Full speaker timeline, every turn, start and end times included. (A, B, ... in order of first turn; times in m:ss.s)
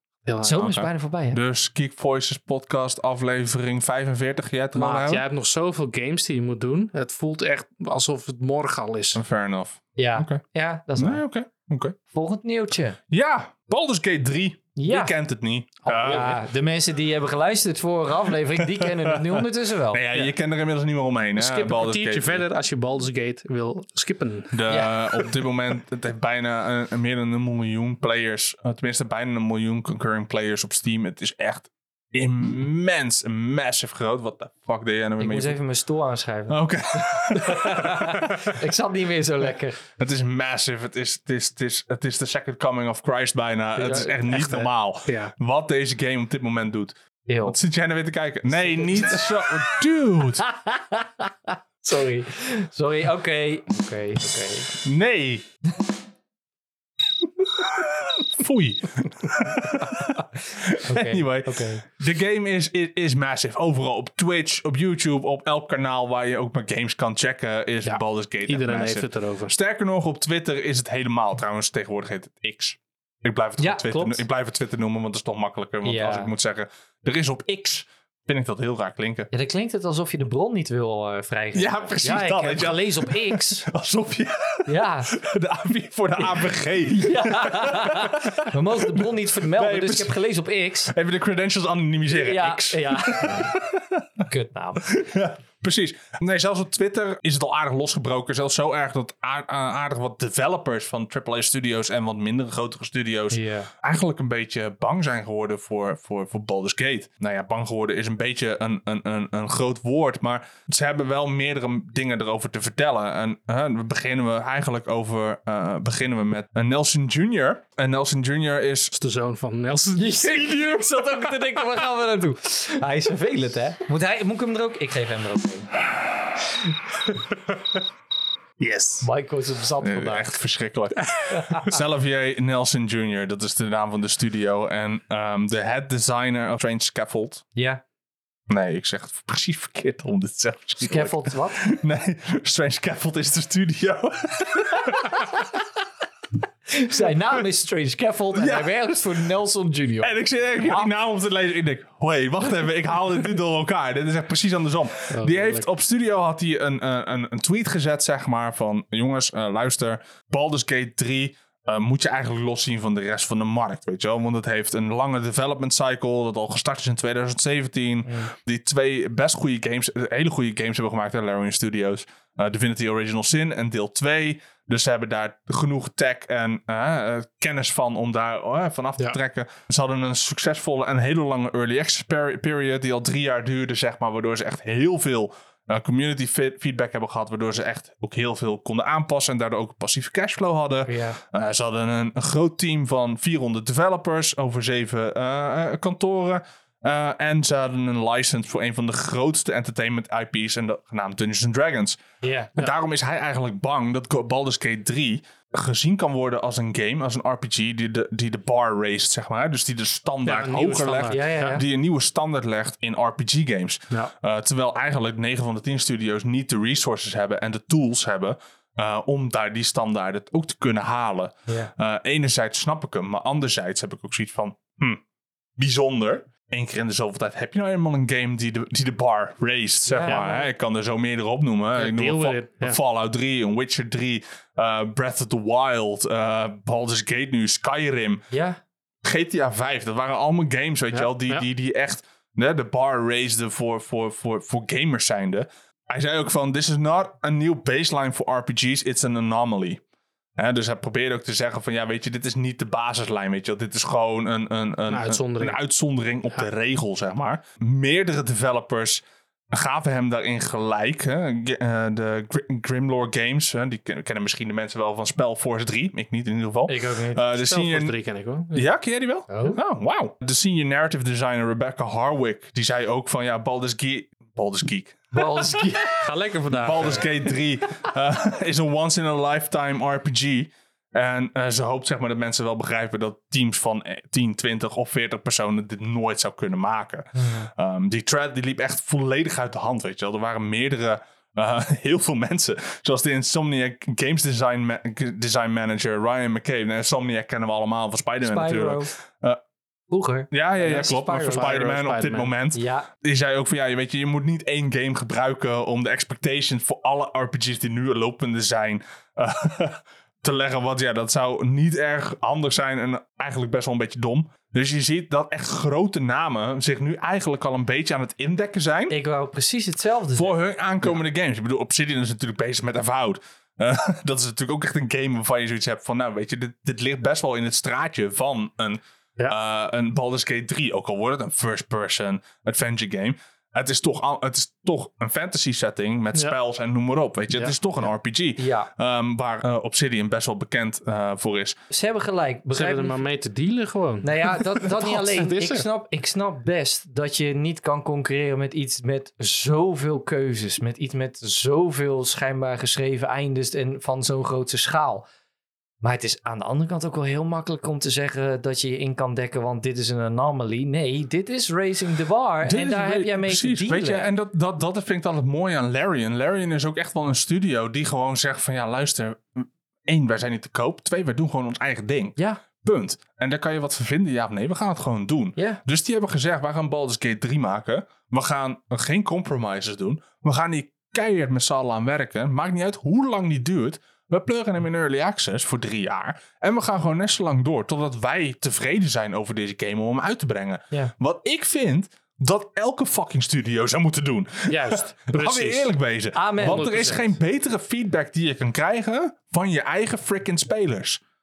0:00.3-0:00.7 A
0:00.4-0:01.4 B
0:00.6-0:05.2 C
0:04.8-0:09.2 A
0:09.2-0:10.4 C
0:10.0-0:11.2 B
0:11.0-0:12.0 C
0:12.1-0:13.0 B
0:13.1-0:16.4 C
0:14.8-0:15.2 B
0:15.9-0:20.3 B
0:18.8-0:22.4 C
0:21.4-0:24.6 A
0:24.5-0:35.6 C
0:24.7-0:25.1 B
0:35.2-0:39.8 B
0:36.5-0:38.6 C
0:40.0-0:46.9 C
0:43.8-0:44.7 B
0:45.1-0:45.3 A
0:47.3-0:47.6 B
0:47.5-0:50.4 C
0:48.5-0:49.7 B
0:50.4-0:54.7 B
0:54.8-0:55.4 C
0:57.6-1:19.3 C
0:59.8-1:00.2 B
1:00.8-1:01.8 B
1:07.8-1:09.6 A
1:13.6-1:14.2 B
1:15.8-1:16.3 B
1:19.3-1:23.7 B
1:21.6-1:30.2 C
1:24.7-1:25.2 B
1:27.0-1:30.9 B
1:30.9-1:34.2 C
1:32.1-1:33.5 B
1:34.3-1:35.0 B
1:34.8-1:58.9 C
1:43.3-1:43.7 B
1:58.9-2:00.4 A
2:00.0-2:05.7 B
2:08.6-2:09.1 A
2:09.0-2:10.3 B
2:09.8-2:17.4 C
2:11.3-2:11.7 B
2:17.6-2:17.8 B
2:18.5-2:25.3 C
2:20.8-2:21.6 B
2:24.8-2:25.6 B
2:26.7-2:30.9 B
2:28.3-2:29.1 C
2:30.0-3:22.0 C
2:35.1-2:35.7 A
2:48.1-2:48.3 B
3:10.9-3:11.2 B
3:22.2-3:22.6 B
3:22.6-3:45.0 C
3:30.2-3:31.6 A
3:31.1-3:31.6 B
3:45.6-3:58.3 C
3:49.9-3:50.5 B
3:51.8-3:52.8 A
3:58.3-3:58.6 B
3:59.0-4:09.8 C
4:00.9-4:01.4 A
4:10.4-4:28.0 C
4:14.9-4:15.6 A
4:26.7-4:27.2 B
4:27.4-4:28.7 A
4:28.5-4:35.6 C
4:29.3-4:29.6 B
4:35.1-4:36.0 B
4:36.0-4:37.1 A
4:36.6-4:59.4 C
4:47.2-4:47.5 B
4:58.2-4:58.9 B
4:59.9-5:01.6 B
5:00.3-5:19.0 C
5:01.2-5:02.3 A
5:02.5-5:02.9 B
5:18.9-5:20.4 B
5:20.2-5:41.6 C
5:38.4-5:38.7 B
5:41.7-5:43.0 B
5:42.5-5:44.1 A
5:44.0-5:55.1 B
5:44.8-5:45.6 A
5:55.8-6:04.1 B
6:02.4-6:41.0 C
6:15.4-6:15.6 B
6:34.5-6:35.7 A
6:36.1-6:36.7 B
6:36.4-6:37.2 A